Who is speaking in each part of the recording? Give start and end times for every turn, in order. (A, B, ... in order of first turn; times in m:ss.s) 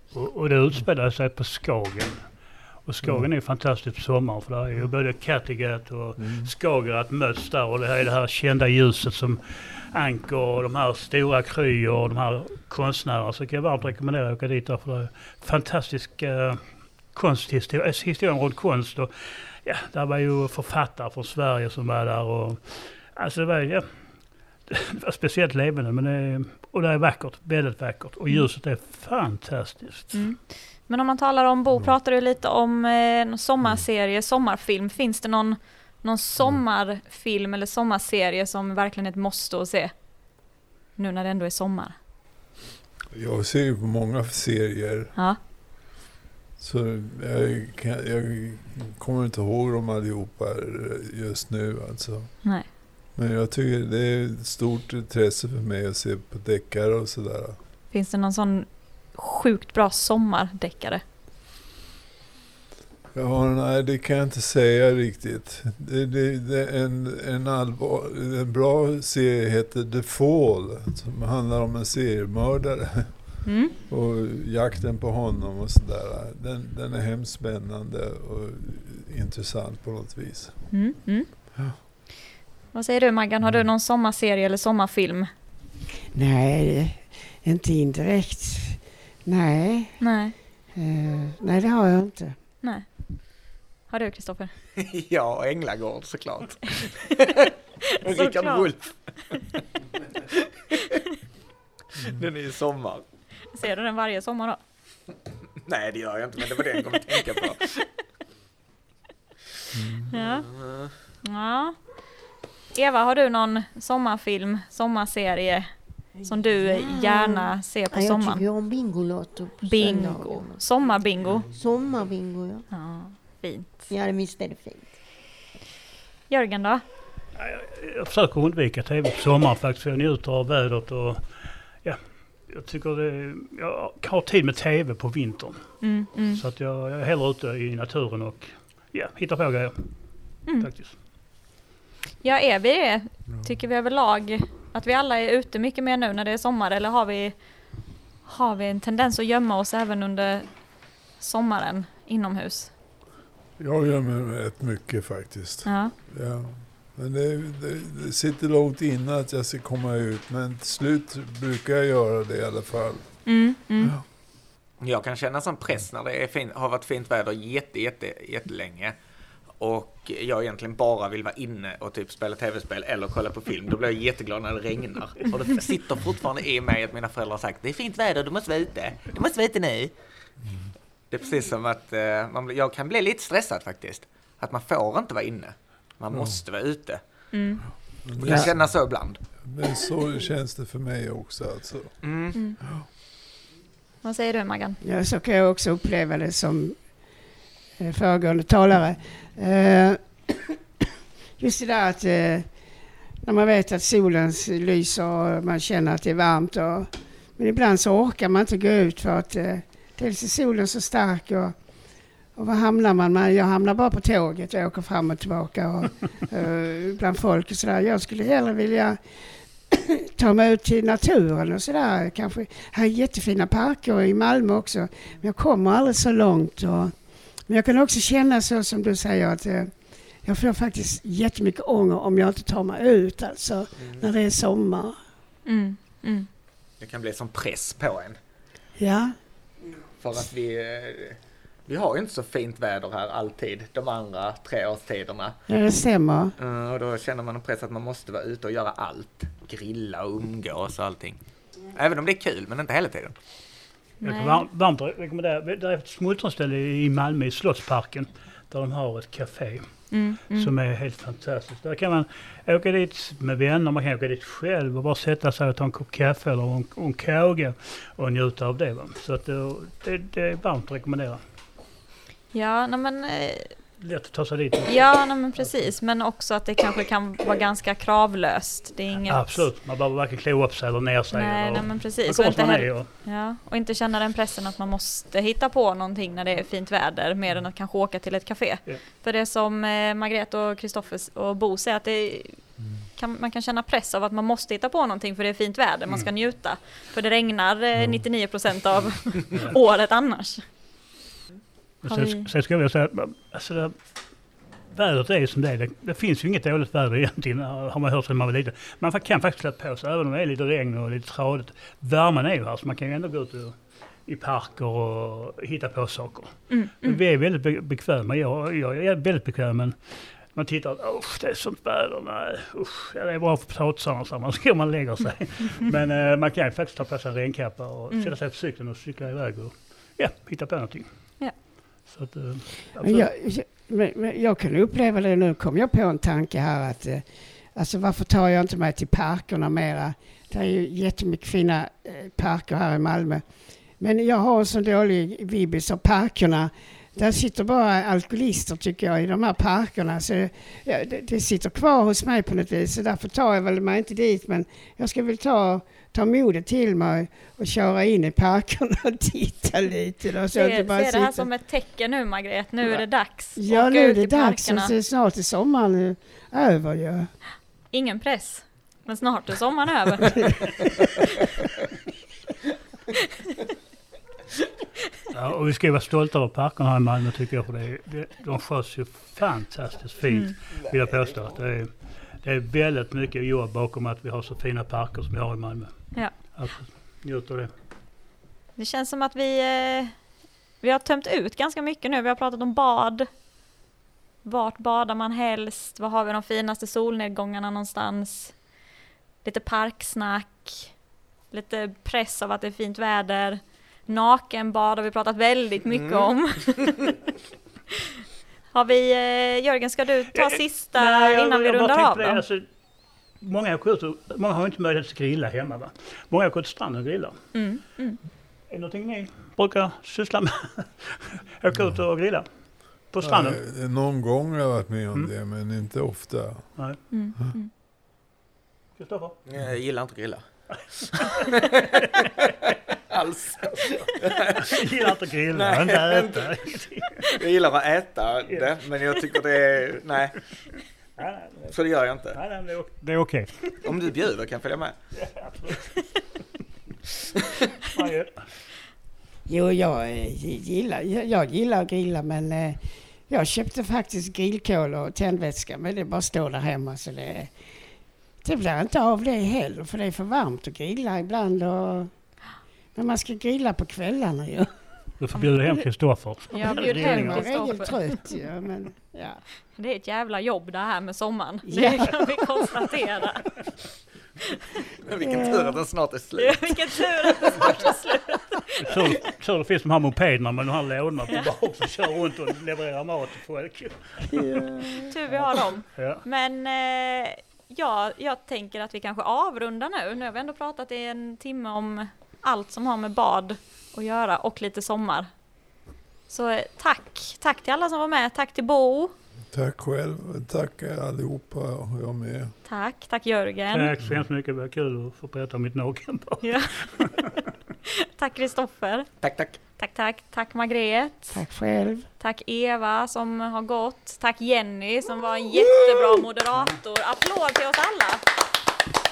0:00.1-0:30.1 A
0:03.0-0:03.3 B
0:06.2-0:06.5 B
0:30.1-0:40.0 C
0:41.0-0:42.0 C
0:43.1-0:45.1 B
0:46.6-0:52.6 B
0:52.4-0:52.7 C
0:53.1-0:57.6 B
0:57.9-1:01.0 C
1:03.1-1:20.5 B
1:13.4-1:13.7 C
1:20.7-1:21.3 C
1:22.7-1:25.3 C
1:26.1-1:30.0 D
1:30.0-1:30.4 C
1:30.7-1:32.4 D
1:33.8-1:34.5 C
1:34.8-1:37.4 E
1:38.0-1:38.7 C
1:38.0-1:39.3 E
1:42.0-1:43.0 E
1:43.5-1:44.6 C
1:45.6-1:47.7 E
1:49.8-1:50.1 B
1:50.1-1:50.5 C
1:50.1-1:51.0 E
1:51.2-1:52.0 C
1:52.7-1:58.4 C
1:56.1-2:02.6 F
1:59.6-2:01.5 C
2:02.7-2:03.9 C
2:03.9-2:05.0 F
2:06.3-2:06.8 C
2:07.4-2:21.0 A
2:15.8-2:16.4 C
2:20.4-2:20.7 C
2:22.2-2:32.7 C
2:33.6-2:43.2 B
2:35.6-2:35.9 C
2:43.2-2:43.9 C
2:44.8-2:49.0 E
2:49.6-2:59.9 E
3:01.1-3:07.0 E
3:06.1-3:06.4 B
3:07.3-3:07.6 C
3:08.0-3:08.9 B
3:08.2-3:09.2 E
3:09.4-3:12.0 B
3:12.0-3:12.4 E
3:14.0-3:14.8 C
3:14.8-3:17.2 D
3:17.8-3:20.4 D
3:21.4-3:22.6 D
3:23.2-3:31.6 D
3:32.3-3:39.0 D
3:39.7-3:55.0 D
3:55.4-3:56.3 C
3:56.8-3:58.2 E
3:58.8-3:59.2 D
4:00.0-4:05.4 E
4:05.5-4:06.3 D
4:06.4-4:13.1 E
4:14.0-4:14.4 C
4:14.0-4:31.2 A
4:19.9-4:20.5 C
4:32.3-4:33.6 C
4:33.8-4:35.7 A
4:34.7-4:39.5 C
4:39.1-4:42.9 A
4:41.1-5:00.5 C
5:01.8-5:03.8 A
5:01.8-5:02.3 C
5:04.7-5:33.1 A
5:16.5-5:17.0 C
5:27.9-5:28.2 C
5:32.8-5:43.2 D
5:43.8-6:01.3 D
6:00.3-6:04.7 C
6:03.3-6:07.1 D
6:07.7-6:10.2 C
6:15.1-6:27.5 A
6:20.1-6:20.4 C
6:20.6-6:21.1 E
6:25.9-6:26.2 C
6:28.6-6:30.0 C
6:30.6-6:33.1 C
6:34.2-6:38.4 C
6:39.2-6:40.8 C
6:41.3-6:46.8 C
6:45.7-6:46.1 E
6:48.5-6:52.2 C
6:50.1-6:52.5 A
6:53.2-6:57.2 A
6:57.3-6:58.0 C
6:58.5-7:03.4 A
7:03.0-7:06.6 B
7:06.9-7:07.5 C
7:08.8-7:09.2 A
7:09.3-7:14.6 E
7:13.4-7:17.2 A
7:15.3-7:16.5 E
7:17.0-7:20.2 E
7:18.2-7:19.0 A
7:21.0-7:21.6 A
7:21.5-7:22.2 E
7:22.1-7:23.7 A
7:23.6-7:24.7 E
7:25.0-7:25.9 A
7:27.7-7:28.3 A
7:29.3-7:37.3 D
7:38.2-7:41.9 D
7:42.7-7:44.5 D
7:45.0-7:47.3 A
7:46.3-7:48.2 C
7:46.4-7:49.2 D
7:49.5-7:53.4 C
7:51.4-7:52.4 D
7:54.8-7:57.8 E
7:55.0-7:55.5 D
7:56.2-7:58.8 C
7:58.6-8:04.4 A
8:04.2-8:04.8 D
8:04.9-8:15.1 C
8:05.1-8:06.0 A
8:16.1-8:18.9 C
8:19.3-8:22.3 B
8:22.4-8:23.7 C
8:23.5-8:27.1 A
8:26.2-8:26.6 C
8:27.6-8:28.9 C
8:29.0-8:29.4 E
8:29.6-8:31.2 C
8:31.1-8:31.9 D
8:32.0-8:38.0 C